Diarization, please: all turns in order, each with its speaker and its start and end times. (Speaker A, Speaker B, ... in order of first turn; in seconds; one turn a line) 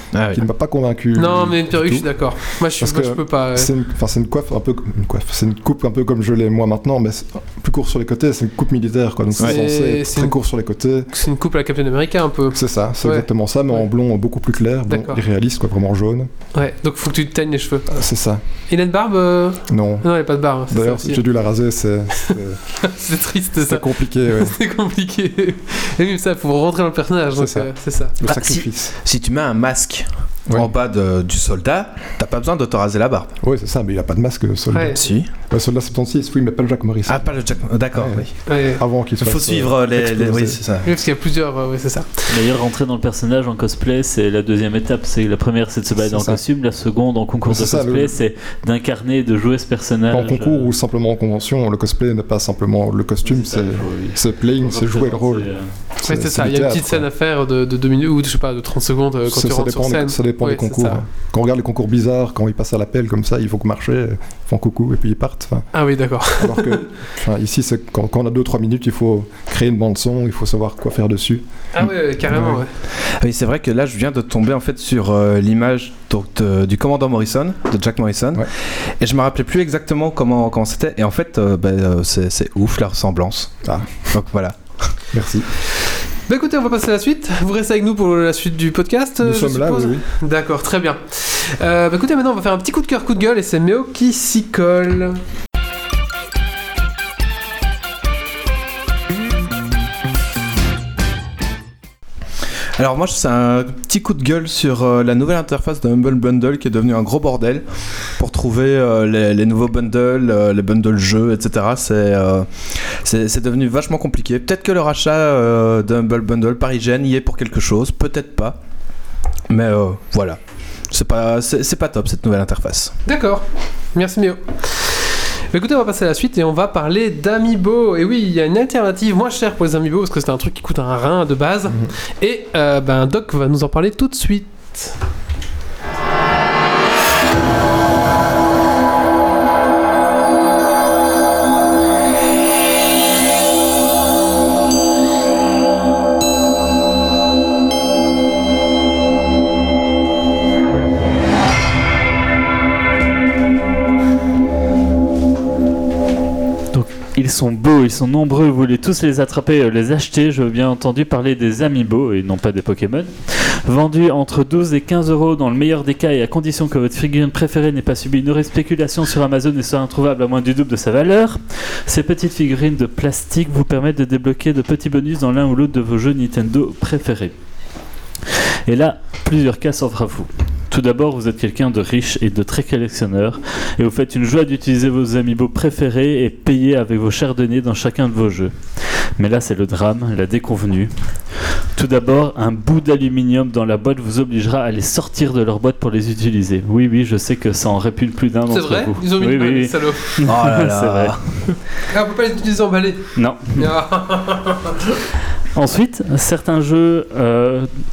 Speaker A: 0.1-0.4
Speaker B: 0.3-2.1
Speaker C: 1.1-3.7
Speaker B: 2.8-11.1
Speaker C: 9.4-10.3
Speaker C: 11.1-13.8
Speaker B: 12.5-16.3
Speaker C: 14.9-15.2
Speaker C: 16.5-17.9
Speaker B: 17.9-18.4
Speaker C: 18.7-21.2
Speaker B: 19.7-20.1
Speaker B: 20.7-22.6
Speaker C: 22.2-28.2
Speaker B: 23.6-24.6
Speaker B: 27.3-28.9
Speaker A: 28.2-33.3
Speaker B: 33.4-40.6
Speaker C: 34.7-35.0
Speaker A: 34.9-35.3
Speaker A: 37.1-38.3
Speaker C: 38.5-38.8
Speaker A: 39.2-40.9
Speaker C: 40.8-42.3
Speaker D: 42.3-50.7
Speaker B: 46.0-46.4
Speaker B: 47.5-48.2
Speaker B: 50.1-57.1
Speaker D: 53.2-55.7
Speaker C: 56.0-61.0
Speaker B: 59.3-65.7
Speaker C: 65.7-66.8
Speaker B: 66.3-71.4
Speaker C: 71.7-72.7
Speaker B: 72.3-72.6
Speaker A: 73.1-83.5
Speaker B: 83.6-84.1
Speaker A: 84.1-84.9
Speaker B: 85.1-85.5
Speaker C: 86.3-95.2
Speaker B: 89.2-90.0
Speaker A: 102.8-107.6
Speaker A: 108.2-118.6
Speaker A: 119.5-120.4
Speaker A: 120.9-122.9
Speaker C: 123.0-134.9
Speaker D: 156.7-177.3
Speaker D: 178.7-188.5
Speaker D: 189.2-190.9
Speaker D: 191.8-201.6
Speaker C: 198.5-200.2
Speaker A: 200.2-201.2
Speaker C: 201.9-204.8
Speaker D: 203.2-203.7
Speaker D: 205.5-207.7